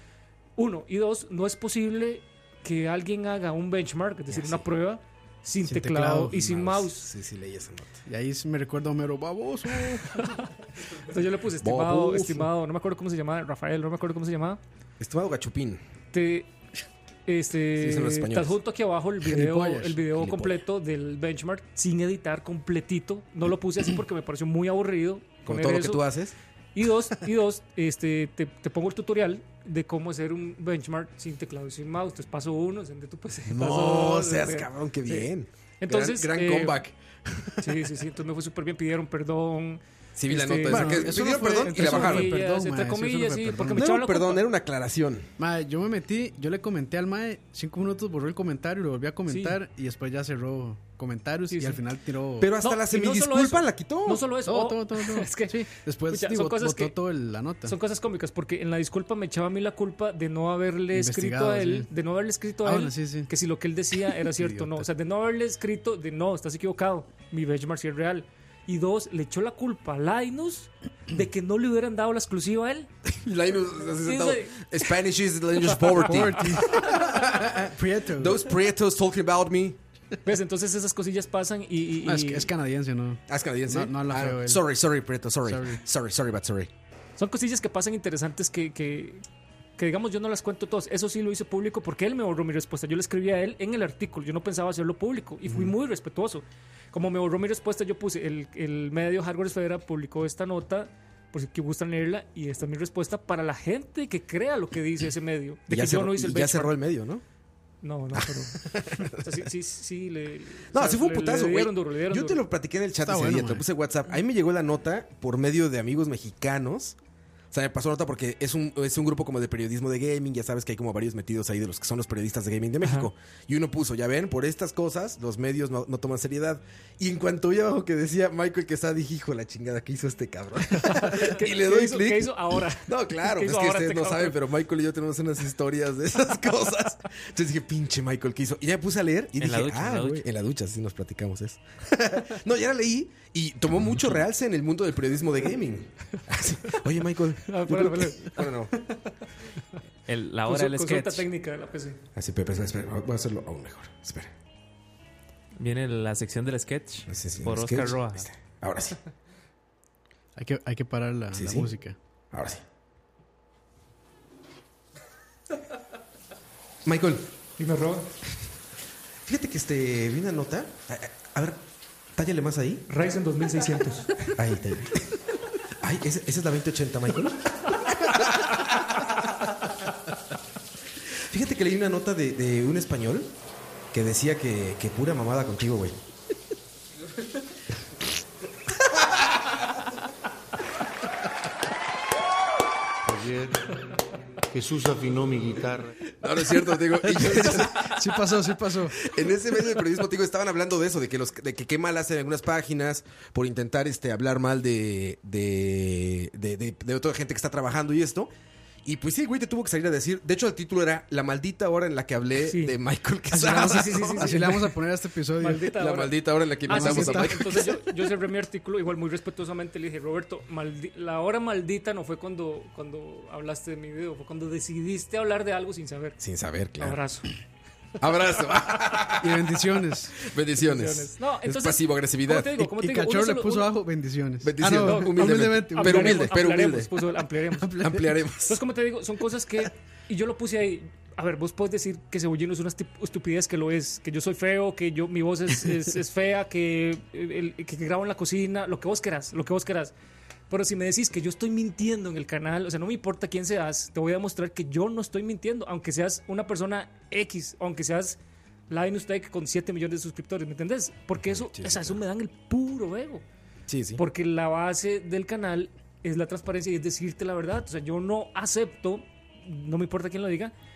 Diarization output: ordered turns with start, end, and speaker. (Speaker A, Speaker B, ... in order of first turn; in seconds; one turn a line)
Speaker A: 0.6-7.1
Speaker B: 4.3-4.6
Speaker C: 5.6-6.5
Speaker B: 6.3-8.0
Speaker C: 8.1-10.3
Speaker A: 10.1-14.6
Speaker B: 11.6-12.5
Speaker B: 15.0-15.8
Speaker A: 16.1-16.5
Speaker A: 17.3-26.0
Speaker B: 17.7-18.6
Speaker C: 19.2-20.1
Speaker B: 20.1-20.6
Speaker B: 25.4-26.3
Speaker A: 26.7-36.8
Speaker B: 33.5-37.9
Speaker A: 37.6-44.4
Speaker B: 40.1-42.3
Speaker C: 40.7-43.9
Speaker B: 43.7-45.3
Speaker C: 45.4-52.5
Speaker A: 49.3-49.6
Speaker A: 51.5-51.8
Speaker B: 52.4-54.2
Speaker A: 52.6-56.9
Speaker C: 54.4-57.8
Speaker A: 57.6-72.9
Speaker C: 60.9-61.9
Speaker C: 62.6-63.3
Speaker C: 64.0-64.9
Speaker B: 73.1-79.8
Speaker A: 73.9-74.7
Speaker C: 75.9-78.5
Speaker A: 76.0-76.4
Speaker A: 80.2-82.5
Speaker C: 82.0-84.6
Speaker B: 83.3-86.7
Speaker C: 85.4-85.8
Speaker A: 87.2-89.2
Speaker A: 89.8-106.7
Speaker B: 105.7-107.2
Speaker A: 107.8-112.4
Speaker B: 108.1-109.2
Speaker B: 110.7-117.0
Speaker C: 113.0-113.6
Speaker B: 117.5-148.7
Speaker A: 122.8-123.1
Speaker A: 130.7-134.4
Speaker D: 139.4-140.2
Speaker A: 147.4-149.3
Speaker D: 150.1-151.2
Speaker A: 150.4-152.0
Speaker B: 152.2-154.3
Speaker D: 155.6-158.3
Speaker B: 157.1-159.0
Speaker C: 160.3-161.9
Speaker B: 161.3-161.7
Speaker B: 162.3-162.6
Speaker B: 166.8-167.3
Speaker A: 167.6-168.1
Speaker B: 169.2-171.6
Speaker B: 172.2-172.8
Speaker A: 172.9-174.3
Speaker B: 174.3-175.1
Speaker B: 175.8-179.1
Speaker B: 181.3-183.3
Speaker B: 183.9-186.0
Speaker E: 193.0-193.8
Speaker E: 194.5-195.9
Speaker B: 196.2-198.1
Speaker C: 197.0-199.0
Speaker B: 198.9-208.3
Speaker B: 208.8-214.5
Speaker A: 212.4-212.7
Speaker C: 213.3-215.7
Speaker A: 213.3-214.8
Speaker A: 215.4-226.2
Speaker B: 215.7-217.8
Speaker C: 216.7-217.5
Speaker B: 226.2-227.0
Speaker A: 226.8-227.3
Speaker B: 228.0-229.5
Speaker C: 229.2-230.1
Speaker B: 230.2-232.5
Speaker A: 230.6-233.7
Speaker C: 232.5-236.3
Speaker B: 234.4-236.9
Speaker A: 234.6-237.8
Speaker C: 237.6-238.2
Speaker B: 237.8-238.6
Speaker A: 238.4-249.9
Speaker A: 250.5-258.2
Speaker A: 258.7-263.2
Speaker B: 261.2-262.0
Speaker B: 263.7-264.0
Speaker A: 263.9-270.5